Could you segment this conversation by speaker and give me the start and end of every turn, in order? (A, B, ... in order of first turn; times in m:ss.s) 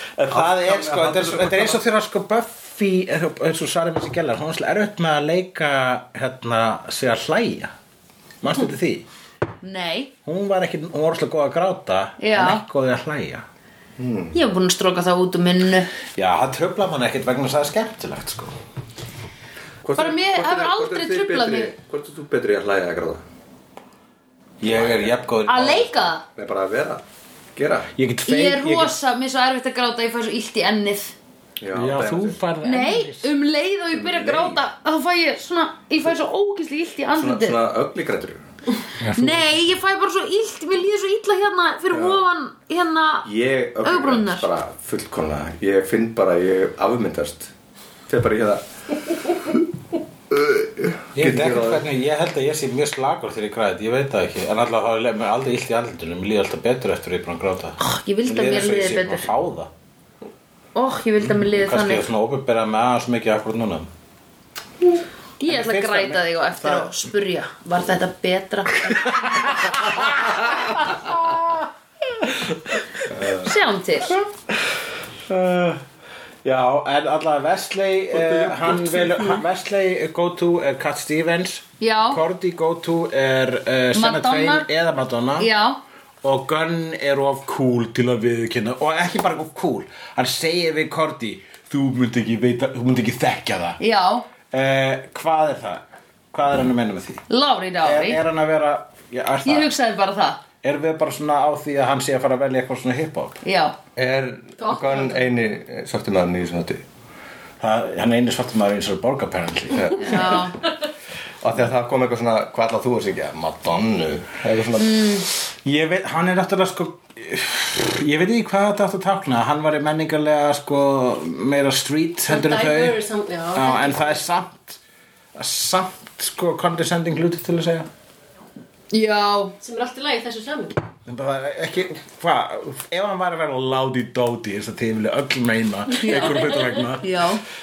0:00.2-0:07.7 A
0:00.3-0:01.8 B
0:08.4-0:09.0 A
0:09.6-0:10.1 C
0:10.2-0:13.4 A
0:12.2-0:12.6 C
0:14.0-0:14.4 B
0:14.3-0:15.9 C
0:16.2-0:18.6 A
0:19.8-0:23.2 B
0:20.0-0:21.7 C
0:24.6-0:26.1 A
0:24.6-0:25.1 B
0:25.5-0:26.2 C
0:26.3-0:27.0 B
0:27.6-0:27.9 B
0:28.0-0:28.9 A
0:28.2-0:31.1 C
0:31.6-0:32.4 B
0:31.7-0:33.3 A
0:32.6-0:37.6 C
0:33.9-0:34.6 B
0:37.1-0:38.4 B
0:39.0-0:39.6 A
0:39.1-0:43.3 C
0:41.9-0:42.2 B
0:43.2-0:47.5 B
0:43.8-0:44.5 C
0:48.1-0:49.6 B
0:50.3-0:51.8 B
0:51.1-0:59.7 A
0:57.8-0:59.3 C
1:00.7-1:02.0 C
1:01.3-1:03.9 A
1:05.4-1:09.6 C
1:05.4-1:07.0 A
1:08.9-1:12.8 A
1:13.1-1:13.4 B
1:13.4-1:14.2 C
1:15.3-1:15.8 A
1:16.4-1:25.5 A
1:18.2-1:19.4 B
1:21.8-1:22.2 C
1:23.9-1:24.7 C
1:25.4-1:25.8 C
1:26.2-1:33.8 A
1:33.8-1:34.3 C
1:34.5-1:37.2 A
1:37.3-1:38.2 C
1:37.8-1:39.7 A
1:39.4-1:40.4 C
1:40.6-1:43.4 A
1:43.4-1:43.7 C
1:44.0-1:46.8 B
1:44.6-1:45.2 D
1:47.6-1:50.3 A
1:49.7-1:50.6 B
1:50.0-1:50.6 C
1:51.4-1:55.0 B
1:54.8-1:55.3 C
1:55.6-2:03.0 A
2:02.3-2:04.2 D
2:03.5-2:04.8 A
2:05.4-2:07.9 A
2:08.9-2:09.6 C
2:09.6-2:10.8 D
2:11.1-2:17.3 A
2:16.0-2:17.4 C